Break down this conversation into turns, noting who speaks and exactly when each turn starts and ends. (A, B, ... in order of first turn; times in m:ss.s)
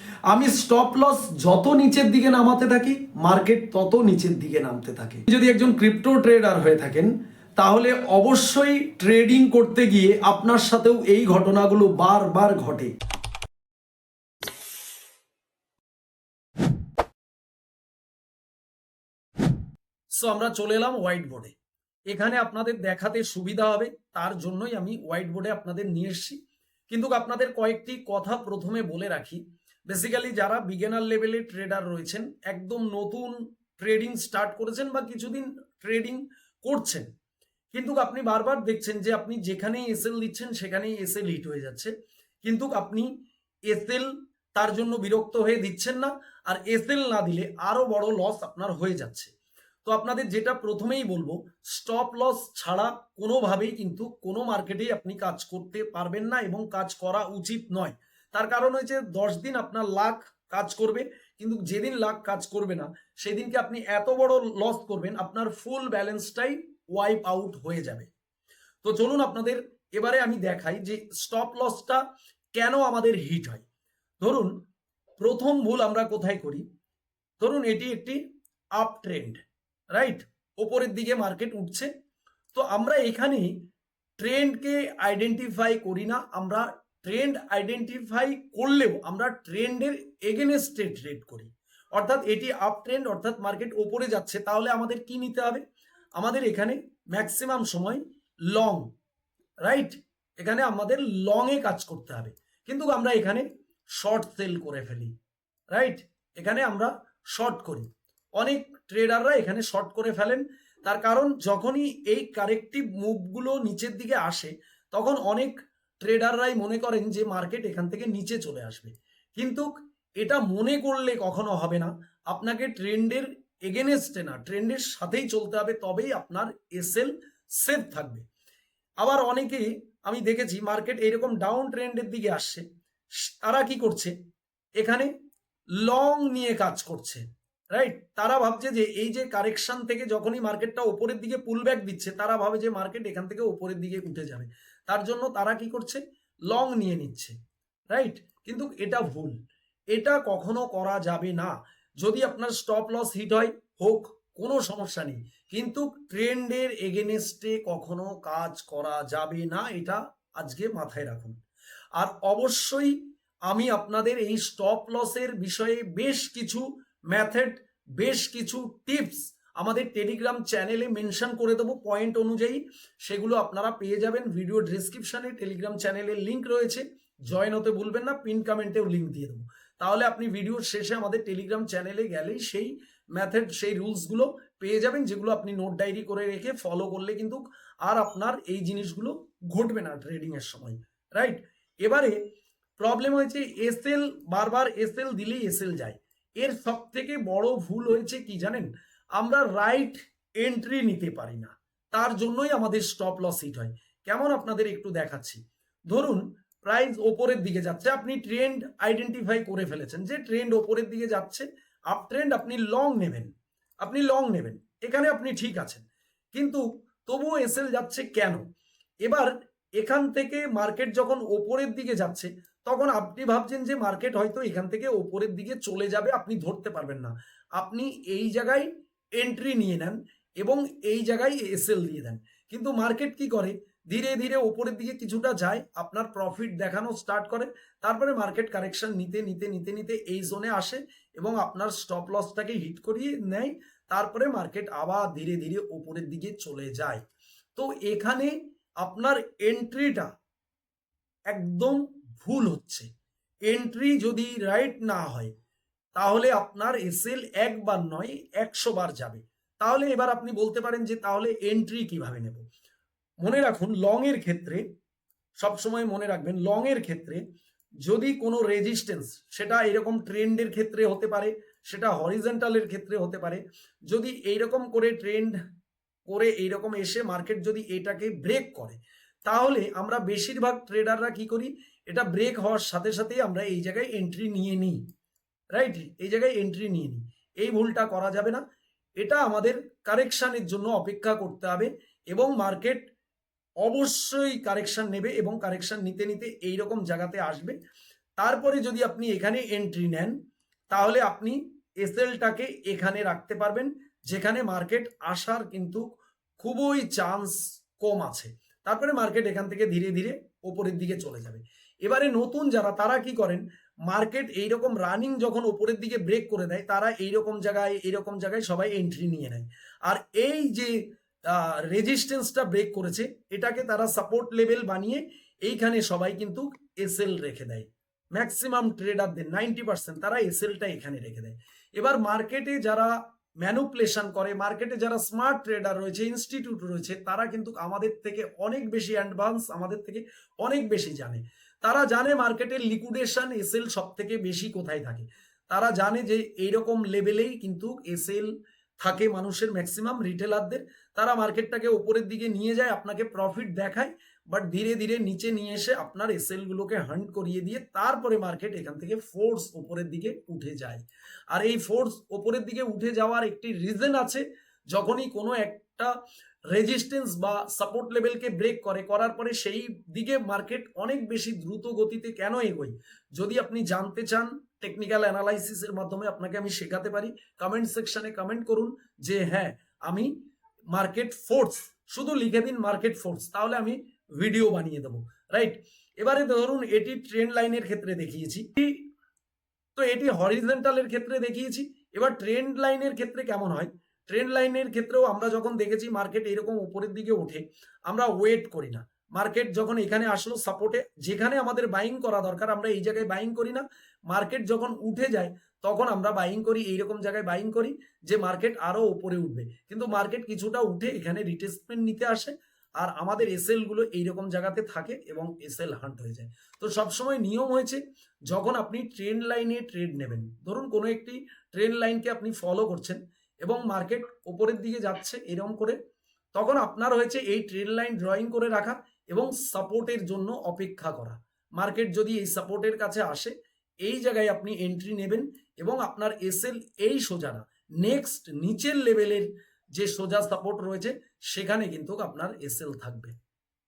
0:00.3-0:12.9 A
0:20.1-0:21.5 A
0:22.1-0:26.4 A
0:26.9-0:37.1 A
0:37.7-0:43.1 A
0:43.7-0:49.3 A
0:49.8-1:08.1 A
1:08.8-1:12.0 A
1:12.5-1:13.6 A
1:14.2-1:14.6 A
1:15.2-1:16.6 A
1:17.4-1:18.2 A
1:18.7-1:21.9 A
1:22.5-1:23.7 A
1:24.2-1:35.6 A
1:36.2-1:38.9 A
1:39.6-1:45.1 A
1:45.7-2:08.2 A
2:09.0-2:12.6 A
2:13.2-2:14.1 A
2:14.8-2:15.1 A
2:15.8-2:27.3 A
2:27.9-2:29.4 A
2:29.9-2:41.4 A
2:41.9-3:12.2 A
3:12.8-3:33.3 A
3:33.8-3:38.4 A
3:39.0-4:07.0 A
4:07.6-4:10.1 A
4:11.3-4:12.9 A
4:13.4-4:15.3 A
4:16.0-4:22.4 A
4:23.2-4:24.6 A
4:25.4-4:27.2 A
4:27.8-4:35.4 A
4:36.0-4:44.8 A
4:45.5-4:48.4 A
4:49.0-4:52.8 A
4:53.6-4:57.6 A
4:58.2-5:00.2 A
5:00.7-6:05.9 A
6:06.5-6:20.1 A
6:20.7-6:28.9 A
6:29.8-7:05.8 A
7:06.3-7:23.1 A